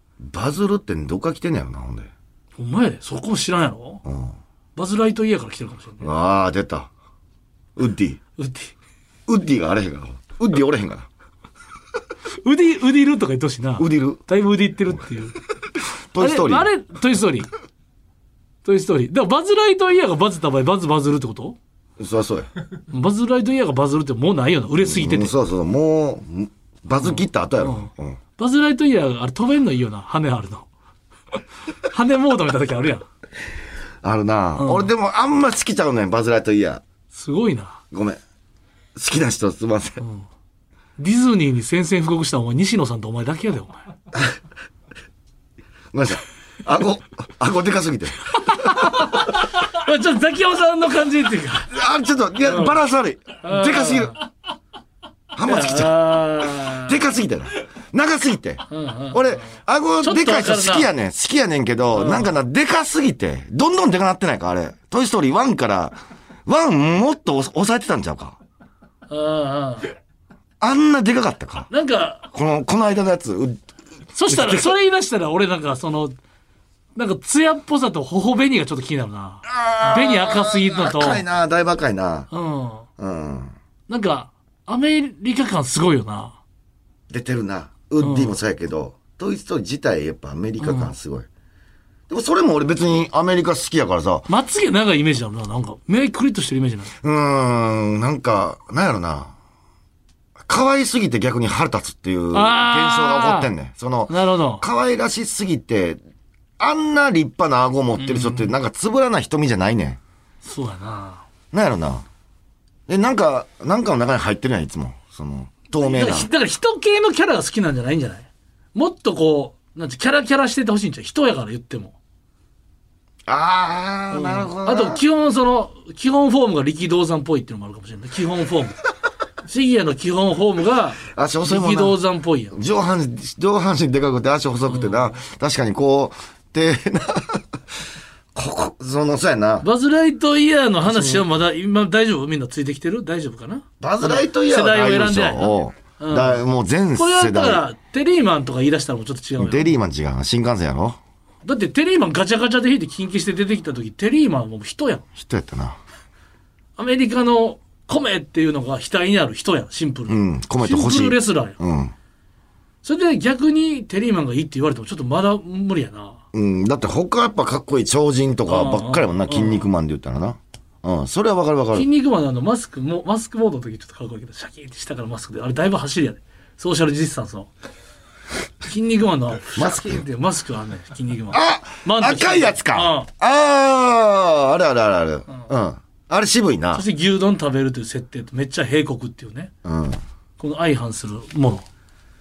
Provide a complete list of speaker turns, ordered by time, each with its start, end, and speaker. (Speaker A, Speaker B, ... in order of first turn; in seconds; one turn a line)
Speaker A: 0.2-2.1
Speaker B: 2.6-4.0
Speaker A: 4.0-4.3
Speaker B: 4.8-6.1
Speaker A: 6.0-6.9
Speaker A: 7.8-8.2
Speaker B: 8.4-8.8
Speaker A: 9.3-11.1
Speaker B: 12.4-15.4
Speaker A: 13.8-14.2
Speaker A: 16.1-16.7
Speaker B: 16.2-17.5
Speaker B: 18.6-21.6
Speaker A: 22.0-22.5
Speaker B: 22.9-25.3
Speaker A: 24.8-28.2
Speaker B: 27.0-30.7
Speaker B: 31.8-33.1
Speaker A: 34.0-36.8
Speaker B: 34.6-34.9
Speaker B: 37.1-37.8
Speaker A: 37.9-38.2
Speaker A: 39.0-40.0
Speaker B: 40.0-40.2
Speaker B: 41.0-43.8
Speaker A: 45.9-48.8
Speaker B: 48.4-51.7
Speaker A: 51.7-54.1
Speaker B: 52.4-52.8
Speaker B: 53.4-54.3
Speaker A: 55.3-68.4
Speaker B: 55.5-57.0
Speaker B: 58.7-59.5
Speaker B: 60.0-60.9
Speaker B: 61.9-62.3
Speaker B: 69.1-69.9
Speaker A: 70.6-71.7
Speaker B: 71.7-72.3
Speaker A: 72.3-73.6
Speaker B: 74.2-76.2
Speaker A: 74.3-74.7
Speaker B: 77.0-81.2
Speaker A: 79.5-82.3
Speaker B: 82.3-82.9
Speaker A: 83.0-83.5
Speaker B: 83.9-86.4
Speaker A: 87.1-91.3
Speaker B: 88.0-88.4
Speaker B: 90.6-90.9
Speaker A: 92.1-94.3
Speaker B: 94.3-96.9
Speaker A: 97.0-99.3
Speaker A: 100.5-106.0
Speaker B: 102.3-103.5
Speaker B: 104.1-104.6
Speaker A: 106.6-110.0
Speaker B: 108.0-108.5
Speaker B: 110.4-111.2
Speaker A: 111.5-112.0
Speaker A: 112.9-116.3
Speaker B: 115.8-122.0
Speaker A: 123.3-125.0
Speaker B: 124.1-128.8
Speaker B: 129.5-132.6
Speaker A: 131.1-132.0
Speaker A: 132.5-137.4
Speaker B: 134.7-135.2
Speaker A: 138.3-139.7
Speaker B: 139.6-146.4
Speaker A: 140.8-141.2
Speaker A: 143.8-147.7
Speaker B: 146.9-149.8
Speaker A: 149.4-151.0
Speaker B: 151.4-155.1
Speaker A: 155.2-155.8
Speaker B: 156.8-161.6
Speaker A: 160.1-161.9
Speaker B: 162.8-166.2
Speaker A: 166.3-171.9
Speaker B: 168.5-169.7
Speaker B: 171.7-177.5
Speaker B: 178.7-183.1
Speaker A: 179.6-180.0
Speaker A: 181.3-186.8
Speaker B: 186.7-189.5
Speaker A: 189.7-190.0
Speaker B: 190.4-191.7